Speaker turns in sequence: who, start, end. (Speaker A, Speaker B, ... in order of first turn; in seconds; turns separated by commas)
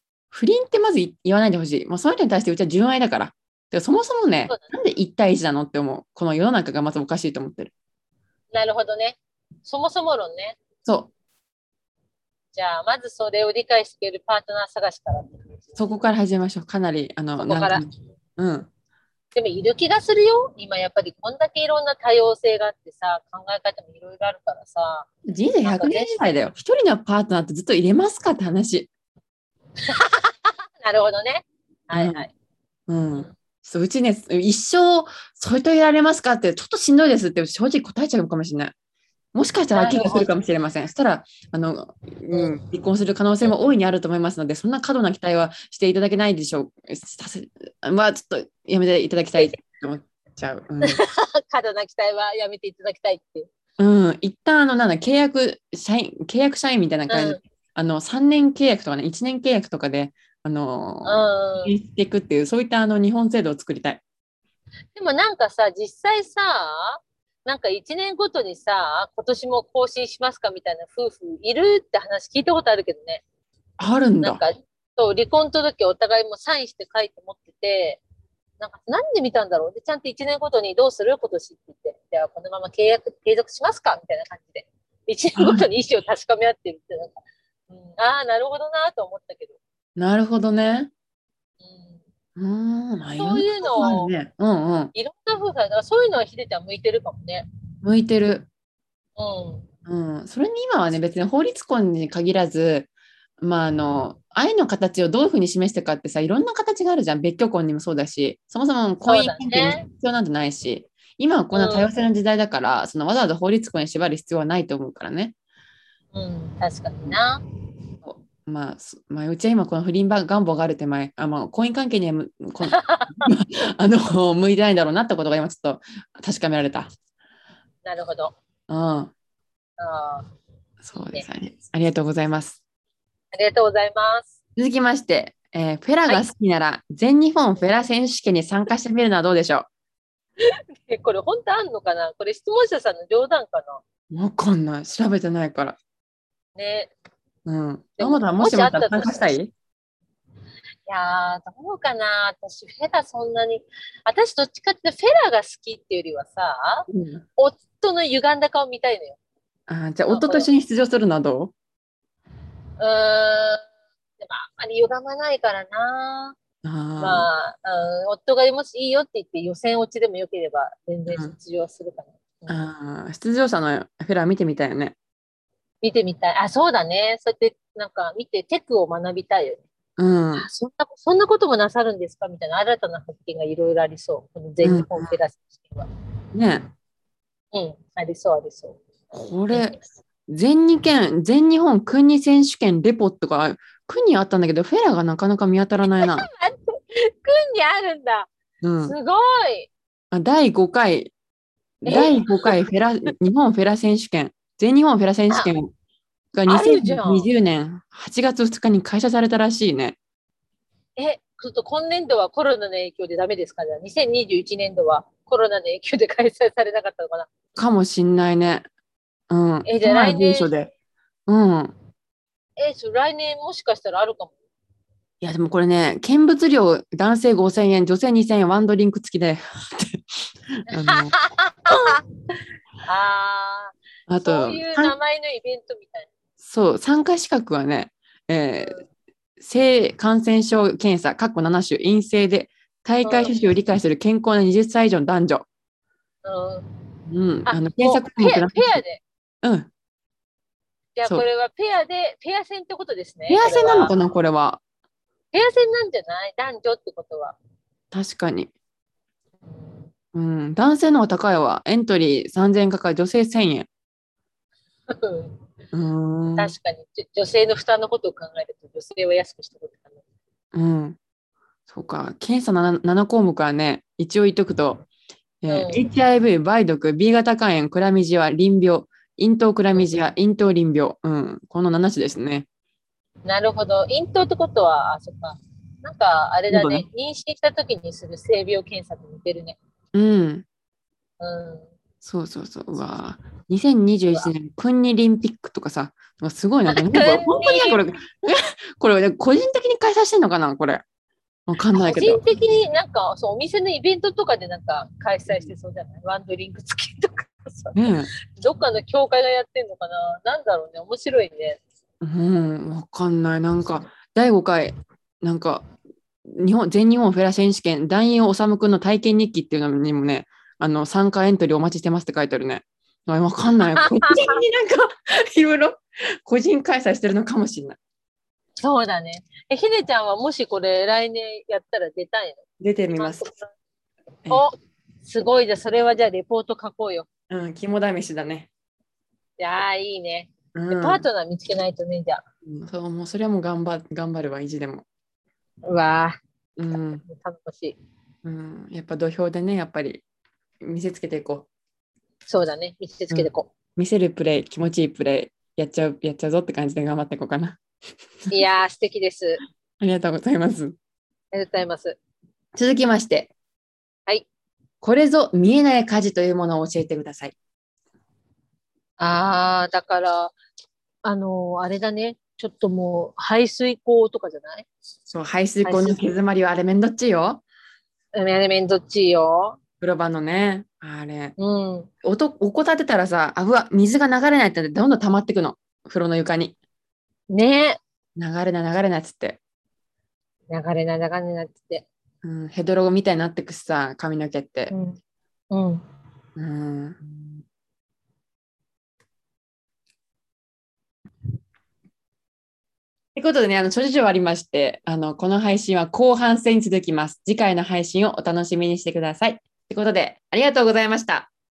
Speaker A: 0.3-7.7, Speaker B: 8.5-10.6, Speaker A: 10.8-11.1, Speaker B: 12.5-15.9, Speaker A: 15.8-18.7, Speaker B: 17.4-17.8, Speaker B: 19.3-25.1, Speaker A: 25.2-28.9, Speaker B: 25.6-26.2, Speaker B: 29.8-32.3, Speaker A: 31.9-32.2, Speaker A: 32.9-38.7, Speaker A: 39.3-51.0, Speaker B: 39.7-40.4, Speaker B: 42.3-42.6, Speaker B: 50.8-53.5, Speaker A: 53.8-64.0, Speaker B: 57.1-57.4, Speaker B: 61.0-61.8, Speaker B: 64.9-73.2, Speaker A: 73.8-74.4, Speaker B: 74.2-78.0, Speaker B: 78.6-89.5, Speaker A: 85.4-85.7, Speaker A: 90.0-90.9, Speaker B: 91.6-92.0, Speaker A: 92.4-94.9, Speaker B: 93.2-94.1, Speaker B: 94.9-97.5, Speaker A: 97.8-98.5, Speaker B: 99.2-99.7, Speaker A: 99.9-102.9, Speaker A: 103.4-115.3, Speaker B: 109.0-109.9, Speaker B: 111.5-111.9, Speaker B: 116.1-117.4, Speaker A: 118.0-126.9, Speaker B: 122.6-123.3, Speaker B: 127.8-128.4, Speaker A: 128.7-129.1, Speaker B: 129.8-130.3, Speaker A: 130.8-132.6, Speaker B: 133.3-134.3, Speaker A: 134.6-139.7, Speaker B: 140.9-143.8, Speaker A: 144.1-145.8, Speaker B: 146.6-146.9, Speaker A: 147.4-149.5, Speaker B: 148.0-149.3, Speaker B: 150.9-159.2, Speaker A: 156.9-157.2, Speaker A: 159.7-161.5, Speaker B: 160.1-160.5, Speaker B: 162.8-163.7, Speaker B: 164.2-166.4, Speaker A: 166.6-167.3, Speaker B: 167.0-172.7, Speaker A: 171.1-171.3, Speaker A: 172.5-174.9, Speaker B: 175.8-179.6, Speaker A: 180.0-180.5, Speaker B: 180.3-185.9, Speaker A: 184.6-185.1, Speaker A: 186.3-186.7, Speaker B: 187.5-188.8, Speaker A: 189.1-196.3, Speaker B: 196.0-198.3, Speaker A: 198.6-198.9, Speaker B: 198.8-199.7, Speaker A: 200.1-201.1, Speaker A: 201.8-205.7, Speaker B: 201.9-202.5, Speaker A: 206.3-210.0, Speaker B: 206.5-207.3, Speaker B: 210.9-217.3, Speaker A: 217.5-218.7, Speaker A: 219.3-220.7, Speaker B: 219.6-220.5, Speaker A: 221.3-221.7, Speaker B: 222.6-224.4, Speaker A: 225.2-230.0, Speaker A: 230.6-231.1, Speaker B: 230.8-232.0, Speaker B: 232.8-236.1, Speaker A: 234.1-234.9, Speaker A: 236.4-238.8, Speaker A: 239.4-245.5, Speaker B: 243.0-243.5, Speaker B: 246.2-246.7, Speaker A: 247.1-248.8, Speaker B: 247.4-249.0, Speaker A: 249.4-249.7, Speaker B: 250.9-253.9, Speaker A: 253.3-254.6, Speaker B: 255.3-257.4, Speaker A: 257.9-258.5, Speaker B: 259.5-259.9, Speaker A: 260.1-263.7, Speaker B: 264.9-265.4, Speaker A: 265.7-266.5, Speaker B: 266.4-270.0, Speaker A: 270.5-271.0, Speaker A: 271.7-274.9, Speaker A: 275.4-282.5, Speaker B: 275.5-275.9, Speaker B: 283.2-289.6, Speaker A: 286.5-286.9, Speaker A: 289.9-290.4, Speaker B: 291.2-291.7, Speaker A: 292.0-300.8, Speaker B: 296.7-297.8, Speaker A: 301.5-302.2, Speaker B: 301.7-311.6, Speaker A: 307.7-308.1, Speaker A: 312.0-315.6, Speaker A: 316.3-327.8, Speaker B: 323.7-324.4, Speaker B: 328.6-333.5, Speaker A: 332.6-333.3, Speaker B: 334.3-337.1, Speaker A: 337.3-338.5, Speaker B: 339.4-342.2, Speaker A: 340.5-341.1, Speaker A: 342.4-344.9, Speaker B: 345.7-346.1, Speaker A: 346.6-347.0, Speaker B: 347.0-347.8, Speaker A: 348.2-350.0, Speaker A: 350.6-351.5, Speaker B: 352.3-353.5, Speaker A: 353.1-357.6, Speaker B: 358.3-359.4, Speaker A: 359.8-360.8, Speaker B: 361.3-362.0, Speaker A: 362.6-363.3, Speaker A: 364.8-367.4, Speaker B: 369.0-370.4, Speaker B: 371.0-374.7, Speaker A: 375.1-377.4, Speaker B: 375.6-376.0, Speaker B: 378.1-379.6, Speaker A: 379.8-381.4, Speaker B: 381.4-381.9, Speaker A: 382.0-386.6, Speaker B: 387.3-387.8, Speaker A: 388.2-389.4, Speaker B: 390.5-391.9, Speaker A: 392.2-394.7, Speaker B: 394.7-395.0, Speaker B: 395.5-395.8, Speaker A: 396.4-397.0, Speaker A: 403.1-411.3